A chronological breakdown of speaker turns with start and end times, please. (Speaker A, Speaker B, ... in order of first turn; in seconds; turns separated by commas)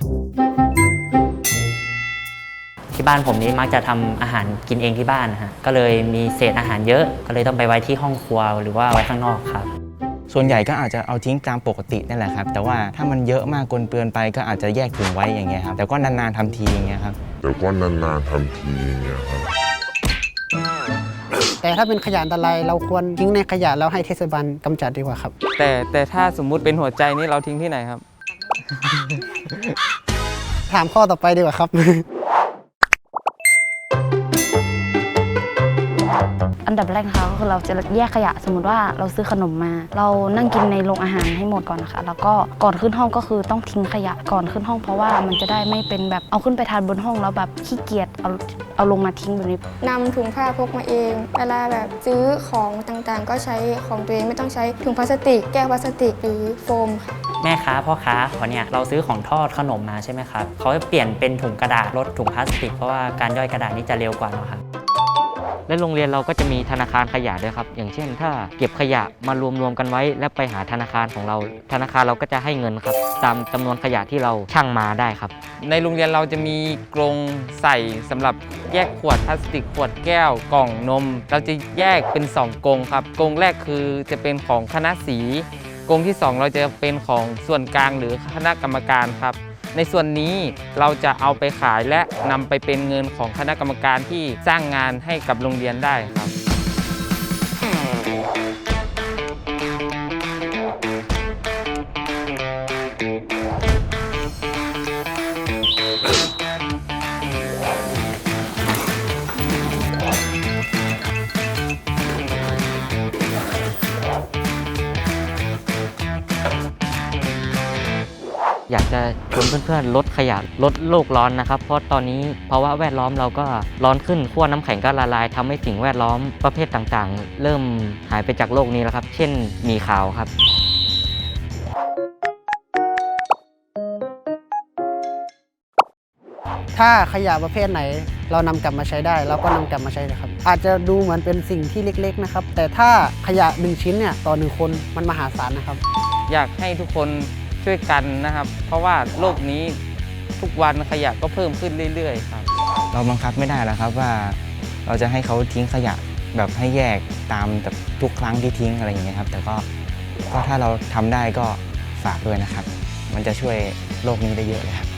Speaker A: 2.9-9.7, Speaker B: 10.3-17.2, Speaker C: 17.4-19.5, Speaker D: 21.6-25.3, Speaker E: 25.6-28.0, Speaker E: 28.8-29.5, Speaker D: 30.7-32.0, Speaker F: 36.6-49.6, Speaker G: 49.8-57.1, Speaker A: 57.4-64.6, Speaker H: 65.7-75.3, Speaker E: 75.6-96.3, Speaker H: 118.7-130.3, Speaker D: 136.7-145.8, Speaker E: 146.3-149.8, Speaker E: 150.4-152.5, Speaker B: 152.9-159.7, Speaker B: 160.3-164.9